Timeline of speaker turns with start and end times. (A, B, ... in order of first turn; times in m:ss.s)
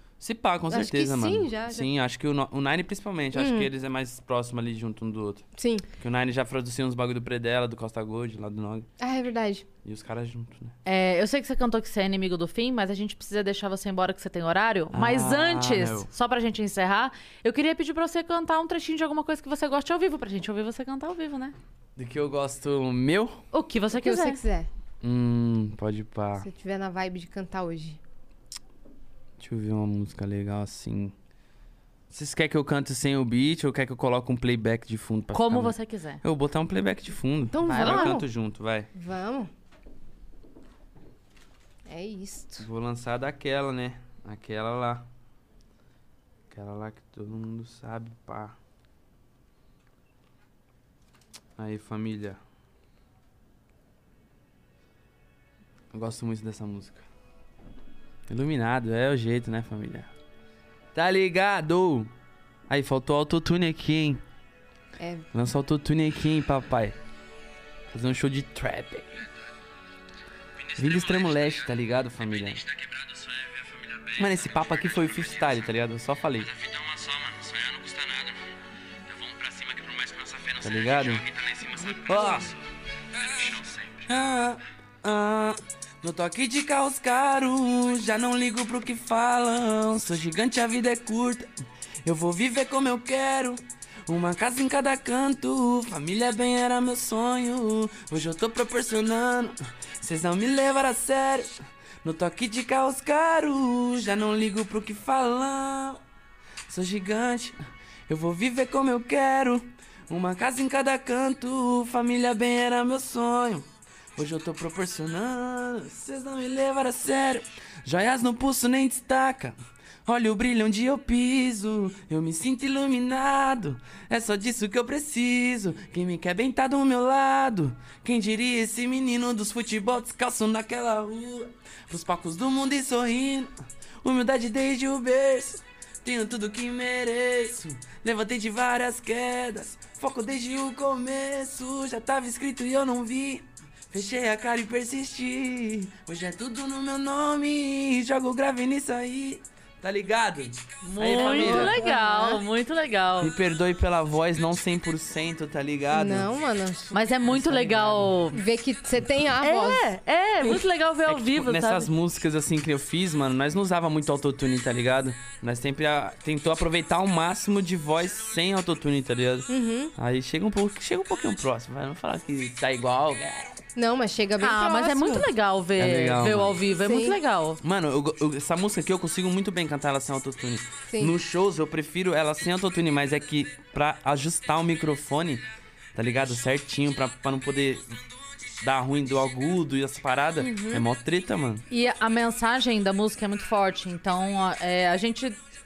0:00.2-0:05.5 A
0:00.7-0:01.9 B
0:03.3-0:03.7 B
0:05.6-0:05.9 B
0:06.0-0:08.9 A
0:09.0-0:09.7 B
0:09.8-0:10.8 A
0:10.9-0:21.6 C
0:14.9-0:16.1 A
0:22.0-0:23.4 A
0:23.5-0:24.4 C
0:23.9-0:24.7 B
0:25.0-0:26.5 A
0:26.4-0:28.0 B
0:29.4-0:31.1 A
0:32.1-0:38.9 A
0:35.3-0:36.2 C
0:37.5-0:38.3 B
0:37.6-0:38.2 C
0:39.0-0:39.5 B
0:41.9-0:42.7 B
0:42.6-0:45.1 A
0:46.5-0:48.6 A
0:51.6-0:52.4 A
0:55.9-0:57.0 A
0:58.3-1:00.1 A
1:01.0-1:02.1 A
1:02.7-1:04.2 A
1:05.0-1:05.3 B
1:05.3-1:07.0 A
1:07.9-1:09.2 A
1:10.6-1:15.7 D
1:10.8-1:12.6 A
1:14.2-1:16.5 A
1:16.4-1:18.4 D
1:19.1-1:22.6 D
1:20.6-1:21.3 A
1:21.9-1:22.5 A
1:23.1-1:24.3 D
1:24.1-1:31.5 A
1:32.0-1:46.0 A
1:46.7-1:47.6 A
1:48.1-2:31.8 A
2:30.8-2:33.3 C
2:31.1-2:32.4 B
2:33.2-2:36.3 A
2:35.9-2:37.0 B
2:36.9-2:38.4 C
2:37.3-2:38.2 A
2:38.3-2:39.9 B
2:39.4-2:41.9 C
2:41.1-2:53.6 A
2:49.5-2:49.9 B
2:53.8-2:55.3 B
2:54.4-2:57.6 C
2:55.8-2:56.6 A
2:56.8-2:57.2 B
2:57.6-3:08.0 A
3:00.9-3:01.2 B
3:08.6-3:11.7 A
3:10.4-3:10.9 B
3:11.7-3:15.4 C